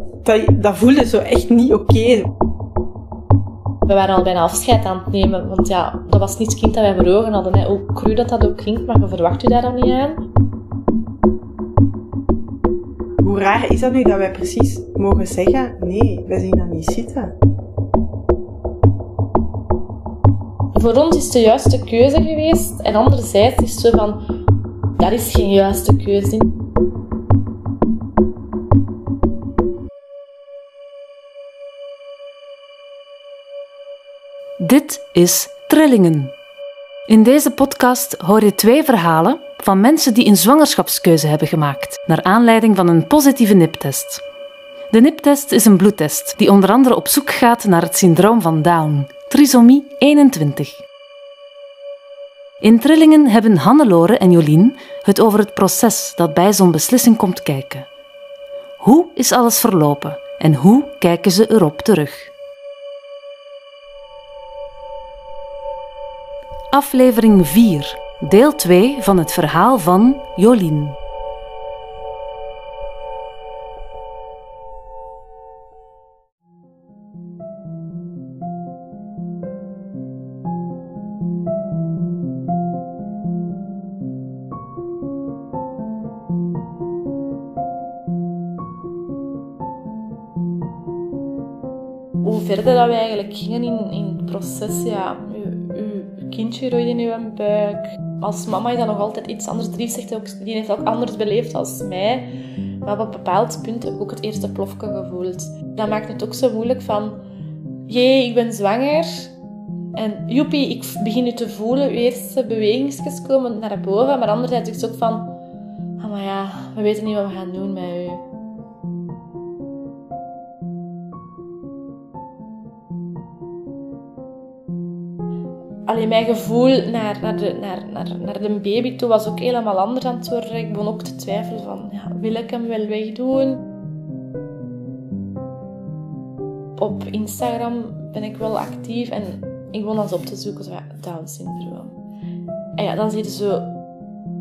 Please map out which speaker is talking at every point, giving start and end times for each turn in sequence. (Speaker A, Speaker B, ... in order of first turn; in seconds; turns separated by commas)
Speaker A: 0.2-2.3, Speaker B: 3.9-10.2, Speaker A: 13.2-17.3, Speaker B: 20.7-24.2, Speaker B: 25.0-26.5, Speaker C: 34.6-36.3, Speaker C: 37.1-44.2, Speaker C: 44.9-50.8, Speaker C: 52.6-57.9, Speaker C: 58.8-62.3, Speaker C: 66.7-71.0, Speaker B: 92.2-102.3, Speaker B: 102.8-107.2, Speaker B: 107.9-109.3, Speaker B: 109.9-115.4, Speaker B: 116.0-118.2, Speaker B: 125.8-133.6, Speaker B: 136.8-142.0, Speaker B: 142.8-143.8